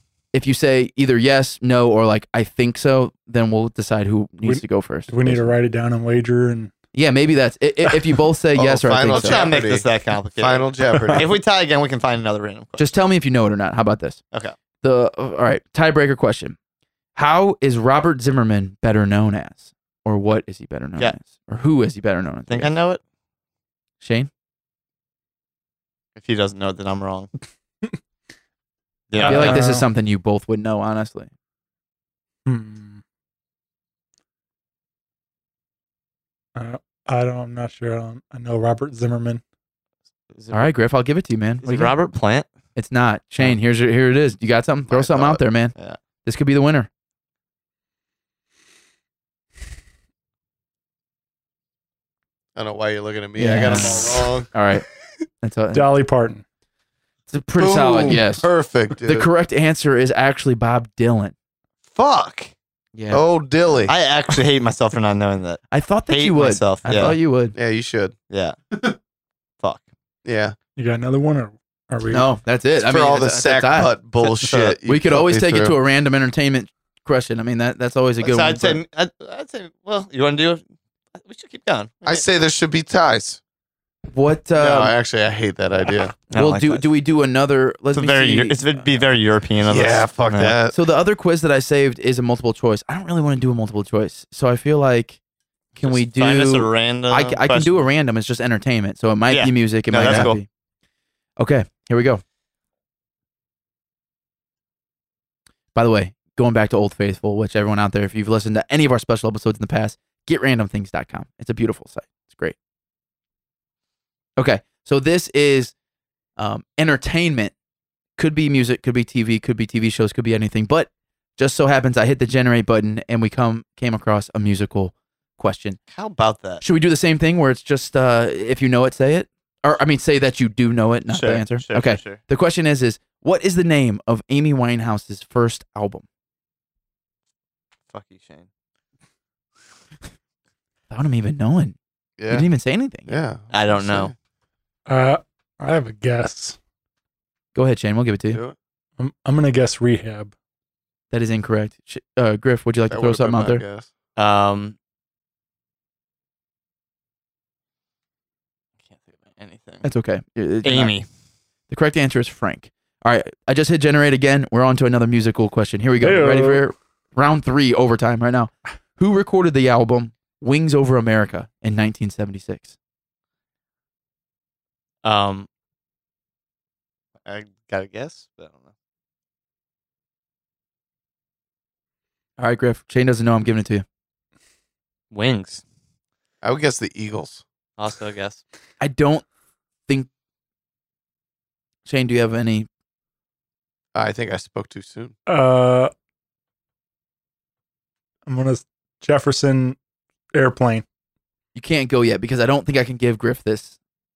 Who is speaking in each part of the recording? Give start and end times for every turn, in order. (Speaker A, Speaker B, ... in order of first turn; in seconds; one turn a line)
Speaker A: 0.3-5.5
Speaker B: 4.4-6.7
Speaker A: 6.9-9.4
Speaker C: 8.6-11.3
Speaker D: 9.1-12.9
Speaker B: 11.0-11.3
Speaker A: 12.8-14.2
Speaker A: 14.8-16.6
Speaker A: 17.1-22.7
Speaker D: 22.5-23.0
Speaker A: 24.0-24.3
Speaker D: 26.2-27.3
Speaker D: 29.1-29.7
Speaker B: 29.2-29.9
Speaker A: 29.2-31.3
Speaker B: 32.5-33.0
Speaker B: 36.6-39.4
Speaker D: 40.3-40.7
Speaker A: 40.5-42.0
Speaker D: 41.6-42.5
Speaker A: 42.8-46.9
Speaker C: 44.9-45.4
Speaker C: 52.6-54.5
Speaker A: 53.4-54.9
Speaker A: 55.4-56.0
Speaker B: 55.7-56.4
Speaker A: 57.3-58.5
Speaker C: 57.6-59.3
Speaker A: 59.0-61.3
Speaker D: 61.9-62.5
Speaker A: 63.0-63.2
Speaker C: 63.1-63.9
Speaker D: 63.9-67.2
Speaker A: 65.7-67.5
Speaker C: 67.5-68.2
Speaker D: 68.3-68.6
Speaker C: 70.2-70.6
Speaker B: 70.8-72.3
Speaker A: 72.1-73.9
Speaker C: 72.8-75.8
Speaker D: 74.2-74.8
Speaker A: 74.8-78.8
Speaker D: 78.2-80.6
Speaker D: 81.2-82.2
Speaker C: 82.0-83.4
Speaker A: 84.1-84.9
Speaker C: 84.6-86.1
Speaker D: 86.2-86.9
Speaker A: 86.3-88.9
Speaker D: 87.9-90.6
Speaker C: 89.7-90.8
Speaker A: 90.7-95.2
Speaker A: 95.8-100.5
Speaker D: 95.8-97.8
Speaker D: 99.3-100.4
Speaker C: 100.0-100.3
Speaker A: 101.4-102.2
Speaker A: 105.8-112.6
Speaker A: 114.4-115.7
Speaker A: 116.4-117.5
Speaker A: 118.2-125.8
Speaker D: 125.9-126.6
Speaker A: 126.6-136.0
Speaker D: 131.1-132.2
Speaker D: 137.9-138.5
Speaker A: 140.9-141.8
Speaker C: 142.2-142.5
Speaker A: 142.3-143.1
Speaker C: 143.1-144.1
Speaker D: 143.5-144.1
Speaker B: 144.9-146.6
Speaker A: 147.6-148.4
Speaker B: 149.0-150.3
Speaker A: 151.1-153.6
Speaker C: 152.9-153.9
Speaker D: 154.2-154.8
Speaker D: 158.9-159.8
Speaker A: 159.8-160.9
Speaker D: 160.6-161.1
Speaker A: 161.7-172.7
Speaker B: 166.0-166.7
Speaker D: 175.0-175.5
Speaker D: 177.3-178.7
Speaker A: 182.4-183.8
Speaker D: 185.1-185.6
Speaker C: 186.4-187.4
Speaker D: 187.8-188.4
Speaker A: 188.8-189.2
Speaker A: 191.9-192.7
Speaker C: 193.9-195.2
Speaker B: 195.3-195.9
Speaker B: 198.3-199.8
Speaker B: 200.3-200.8
Speaker A: 201.6-203.8